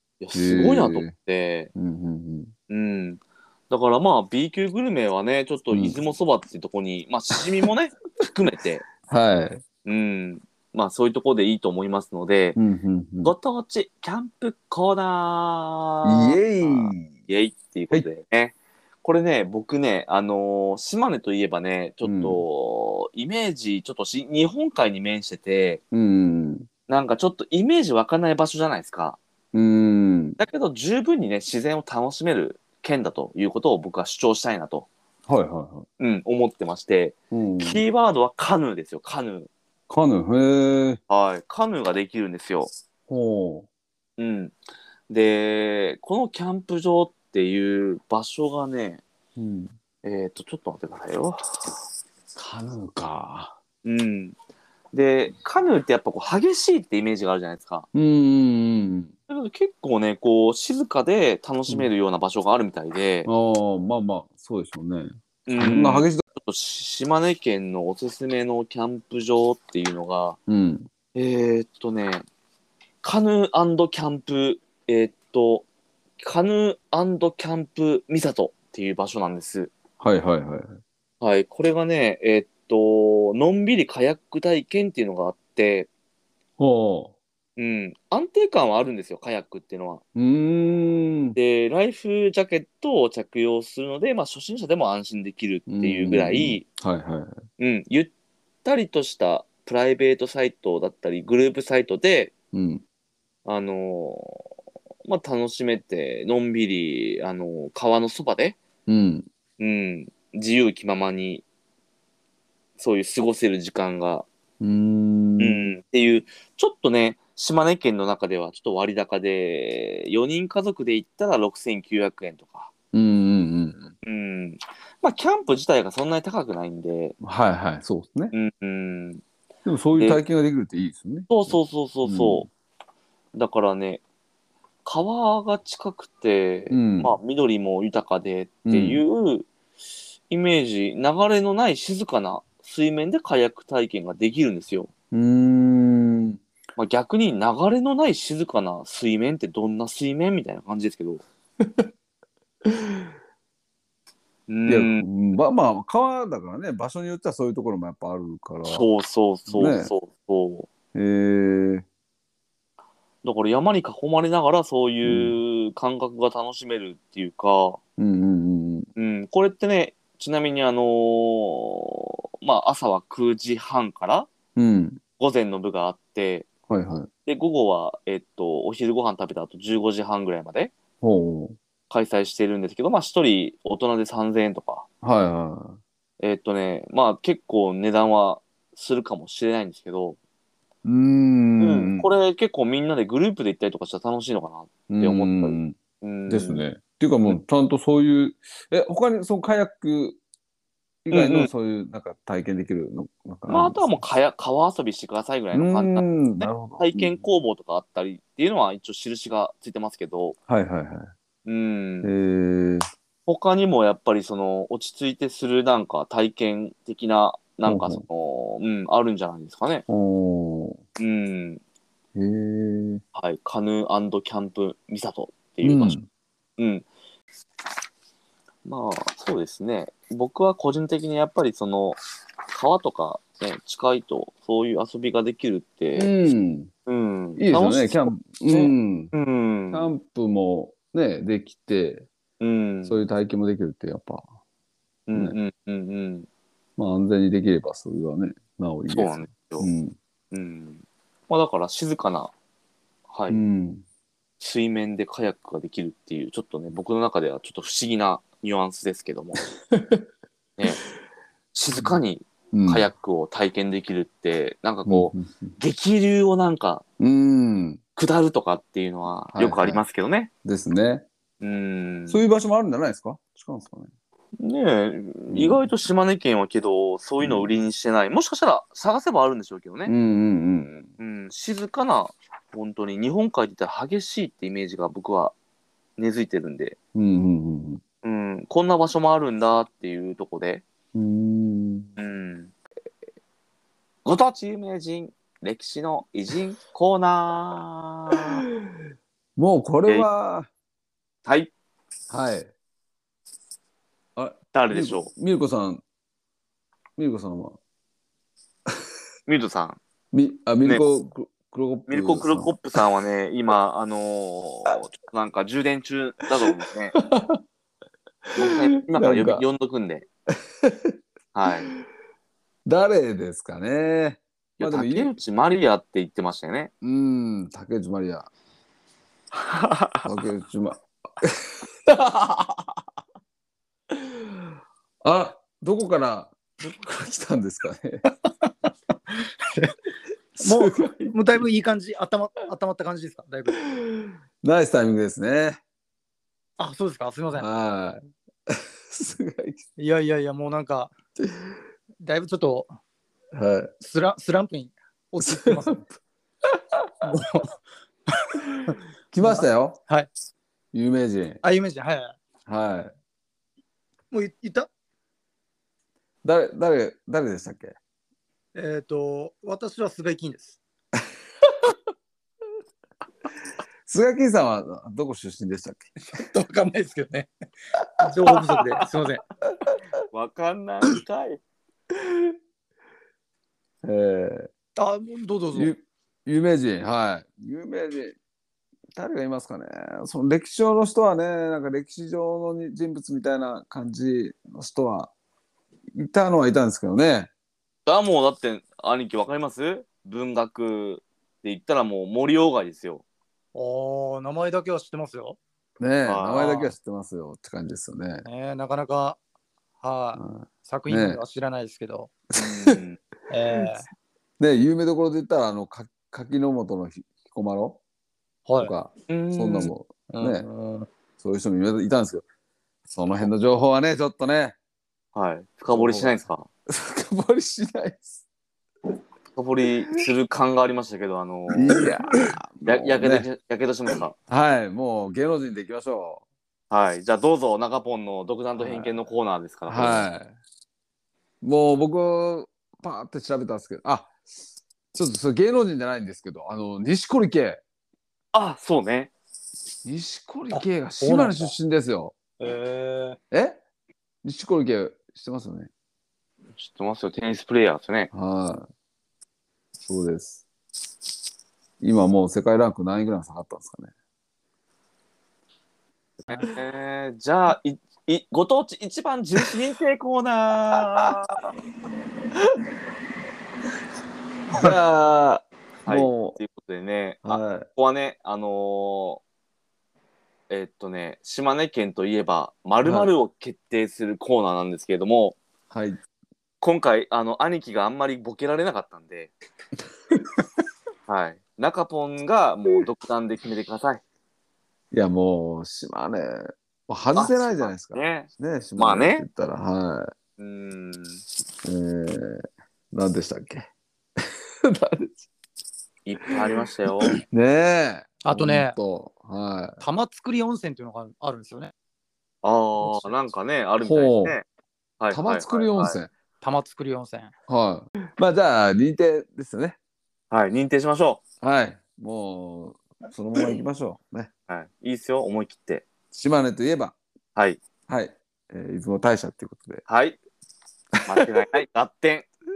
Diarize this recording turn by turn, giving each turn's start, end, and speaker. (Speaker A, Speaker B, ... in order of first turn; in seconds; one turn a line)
Speaker A: 0.2-1.7
Speaker B: 0.3-1.1
Speaker B: 1.8-2.5
Speaker A: 2.7-8.8
Speaker B: 5.7-6.0
Speaker B: 9.0-9.6
Speaker A: 9.8-12.6
Speaker B: 12.6-13.3
Speaker A: 13.2-25.8
Speaker B: 16.0-17.1
Speaker B: 22.0-22.4
Speaker B: 25.9-26.7
Speaker A: 26.9-29.2
Speaker B: 29.5-30.4
Speaker A: 30.4-34.9
Speaker B: 35.3-35.9
Speaker A: 36.0-39.5
Speaker B: 37.3-37.8
Speaker B: 39.9-41.0
Speaker A: 41.1-42.7
Speaker B: 43.1-43.7
Speaker A: 44.2-44.5
Speaker A: 45.1-49.0
Speaker B: 49.4-49.8
Speaker A: 50.0-51.7
Speaker B: 52.4-53.5
Speaker A: 53.8-54.4
Speaker A: 54.9-57.9
Speaker B: 57.9-59.1
Speaker A: 59.3-63.3
Speaker B: 63.3-66.2
Speaker A: 65.5-70.4
Speaker B: 70.5-70.9
Speaker A: 71.2-72.2
Speaker A: 73.0-75.7
Speaker A: 76.2-79.7
Speaker B: 80.0-80.8
Speaker A: 81.2-85.9
Speaker B: 86.6-87.1
Speaker A: 87.6-90.0
Speaker B: 90.2-91.4
Speaker A: 91.3-96.7
Speaker B: 95.7-97.4
Speaker A: 97.6-98.1
Speaker A: 98.6-102.3
Speaker B: 102.5-102.8
Speaker A: 103.5-104.4
Speaker A: 105.0-108.6
Speaker B: 108.9-109.3
Speaker A: 109.6-111.5
Speaker A: 112.8-114.3
Speaker B: 114.6-115.7
Speaker A: 115.4-122.7
Speaker B: 122.9-123.9
Speaker A: 124.0-127.2
Speaker B: 127.2-128.3
Speaker A: 128.3-129.2
Speaker B: 129.7-132.5
Speaker A: 130.0-130.2
Speaker A: 131.3-132.5
Speaker A: 133.3-134.0
Speaker A: 134.8-139.5
Speaker B: 136.7-137.2
Speaker B: 138.7-139.0
Speaker A: 140.3-144.9
Speaker B: 145.1-146.4
Speaker A: 146.8-151.2
Speaker B: 151.6-151.9
Speaker B: 152.7-153.0
Speaker A: 154.5-155.1
Speaker B: 154.7-158.9
Speaker A: 158.7-160.7
Speaker B: 159.5-159.9
Speaker B: 160.9-161.8
Speaker A: 163.2-167.8
Speaker B: 165.0-165.4
Speaker B: 168.0-168.9
Speaker A: 169.0-174.3
Speaker B: 174.6-175.0
Speaker A: 175.2-176.5
Speaker B: 176.7-177.1
Speaker A: 177.2-180.7
Speaker B: 181.0-181.6
Speaker A: 181.9-184.8
Speaker B: 185.0-185.8
Speaker A: 186.2-190.2
Speaker B: 190.8-192.1
Speaker A: 191.6-196.6
Speaker B: 194.9-200.2
Speaker B: 201.1-204.0
Speaker A: 201.1-201.5
Speaker A: 203.5-206.1
Speaker B: 205.5-207.2
Speaker A: 206.8-210.4
Speaker B: 210.5-211.1
Speaker A: 211.4-212.1
Speaker B: 212.0-212.9
Speaker A: 213.3-219.8
Speaker B: 217.6-218.0
Speaker B: 219.9-220.8
Speaker A: 221.0-221.6
Speaker B: 222.2-223.0
Speaker A: 223.2-226.0
Speaker B: 225.6-226.1
Speaker A: 226.6-226.9
Speaker A: 228.7-232.0
Speaker A: 232.5-236.1
Speaker B: 236.0-236.7
Speaker A: 236.9-239.9
Speaker B: 237.4-239.1
Speaker B: 239.7-242.1
Speaker A: 242.4-243.1
Speaker B: 242.9-244.3
Speaker A: 245.1-246.3
Speaker B: 246.8-249.9
Speaker A: 248.9-249.7
Speaker A: 250.3-252.3
Speaker A: 253.1-253.4
Speaker B: 253.3-253.8
Speaker A: 254.4-259.4
Speaker B: 259.7-260.0
Speaker A: 260.6-260.8
Speaker A: 261.5-266.8
Speaker B: 262.5-262.9
Speaker B: 264.9-265.6
Speaker B: 267.0-267.8
Speaker A: 268.0-270.3
Speaker B: 269.4-269.8
Speaker B: 270.4-271.1
Speaker A: 271.4-272.2
Speaker B: 272.1-273.9
Speaker A: 274.4-279.9
Speaker B: 275.3-275.6
Speaker B: 277.2-277.5
Speaker B: 279.9-280.9
Speaker A: 281.0-285.3
Speaker A: 286.0-286.8
Speaker B: 286.9-287.8
Speaker A: 288.0-290.6
Speaker B: 290.9-291.9
Speaker A: 292.0-292.5
Speaker A: 294.1-298.4
Speaker B: 299.4-300.5
Speaker A: 301.2-301.5
Speaker B: 302.1-302.5
Speaker B: 304.2-305.8
Speaker A: 304.5-305.1
Speaker B: 307.0-307.6
Speaker A: 309.3-309.8
Speaker B: 310.1-312.6
Speaker A: 311.9-317.0
Speaker B: 317.0-317.4
Speaker B: 318.4-319.4
Speaker A: 318.4-320.1
Speaker B: 320.6-321.0
Speaker A: 321.3-321.7
Speaker B: 322.6-325.1
Speaker A: 324.6-326.7
Speaker B: 326.8-328.3
Speaker A: 329.4-330.0
Speaker B: 330.0-332.8
Speaker B: 333.9-334.4
Speaker B: 335.0-338.0
Speaker C: 339.1-339.8
Speaker B: 340.4-341.1
Speaker C: 340.4-343.7
Speaker B: 344.0-345.6
Speaker C: 346.6-347.5
Speaker B: 347.4-349.6
Speaker C: 349.8-350.9
Speaker C: 352.0-352.7
Speaker B: 353.3-353.7
Speaker C: 353.8-355.8
Speaker B: 355.2-355.8
Speaker C: 357.0-360.1
Speaker B: 359.1-359.8
Speaker B: 360.7-361.4
Speaker C: 361.4-362.2
Speaker B: 362.5-362.9
Speaker C: 364.1-364.7
Speaker B: 366.2-367.8
Speaker C: 368.6-370.6
Speaker B: 373.9-375.9
Speaker C: 376.1-377.3
Speaker C: 378.0-379.2
Speaker A: 380.1-381.4
Speaker B: 383.8-384.5
Speaker C: 384.8-385.7
Speaker B: 385.5-388.2
Speaker B: 388.9-395.1
Speaker B: 395.9-397.3
Speaker A: 397.9-403.0
Speaker C: 403.6-405.4
Speaker B: 405.8-408.3
Speaker A: 406.1-406.4
Speaker C: 406.3-406.7
Speaker C: 408.3-409.2
Speaker C: 409.8-412.1
Speaker B: 410.2-411.2
Speaker A: 412.4-413.0
Speaker B: 412.4-412.8
Speaker C: 413.3-413.9
Speaker B: 414.4-417.8
Speaker C: 418.5-418.7
Speaker B: 418.6-420.5
Speaker A: 419.1-419.7
Speaker C: 420.1-420.9
Speaker B: 421.2-422.2
Speaker B: 422.9-424.6
Speaker A: 425.1-426.5
Speaker B: 425.7-428.2
Speaker A: 429.4-431.9
Speaker B: 431.5-433.3
Speaker A: 432.6-434.1
Speaker B: 434.3-436.2
Speaker A: 436.7-440.1
Speaker B: 438.6-438.9
Speaker B: 439.7-440.4
Speaker B: 441.4-444.1
Speaker B: 444.9-447.6
Speaker A: 448.3-449.1
Speaker B: 449.9-452.1
Speaker C: 450.5-451.5
Speaker C: 452.4-453.2
Speaker B: 453.3-453.6
Speaker B: 454.2-455.7
Speaker A: 456.6-458.1
Speaker B: 458.1-458.7
Speaker B: 459.9-460.4
Speaker B: 461.8-463.9
Speaker A: 466.3-471.4
Speaker B: 474.5-476.4
Speaker A: 475.9-479.2
Speaker B: 477.2-477.7
Speaker A: 480.5-485.4
Speaker B: 482.8-483.1
Speaker B: 485.7-486.0
Speaker A: 486.6-489.3
Speaker A: 491.1-494.0
Speaker B: 494.9-500.1
Speaker A: 497.1-499.2
Speaker A: 500.4-501.2
Speaker B: 501.6-503.7
Speaker B: 504.2-505.3
Speaker A: 506.1-507.2
Speaker B: 507.1-509.8
Speaker C: 508.2-508.8
Speaker C: 509.8-511.7
Speaker A: 512.4-514.4
Speaker C: 512.8-513.1
Speaker B: 513.8-514.4
Speaker A: 515.0-516.0
Speaker B: 515.1-516.1
Speaker C: 516.4-517.3
Speaker B: 517.5-519.8
Speaker A: 520.3-521.2
Speaker B: 521.4-524.3
Speaker A: 524.5-525.9
Speaker B: 526.1-527.0
Speaker A: 527.4-527.6
Speaker B: 527.9-529.8
Speaker A: 529.9-530.2
Speaker A: 531.1-532.3
Speaker B: 531.1-531.4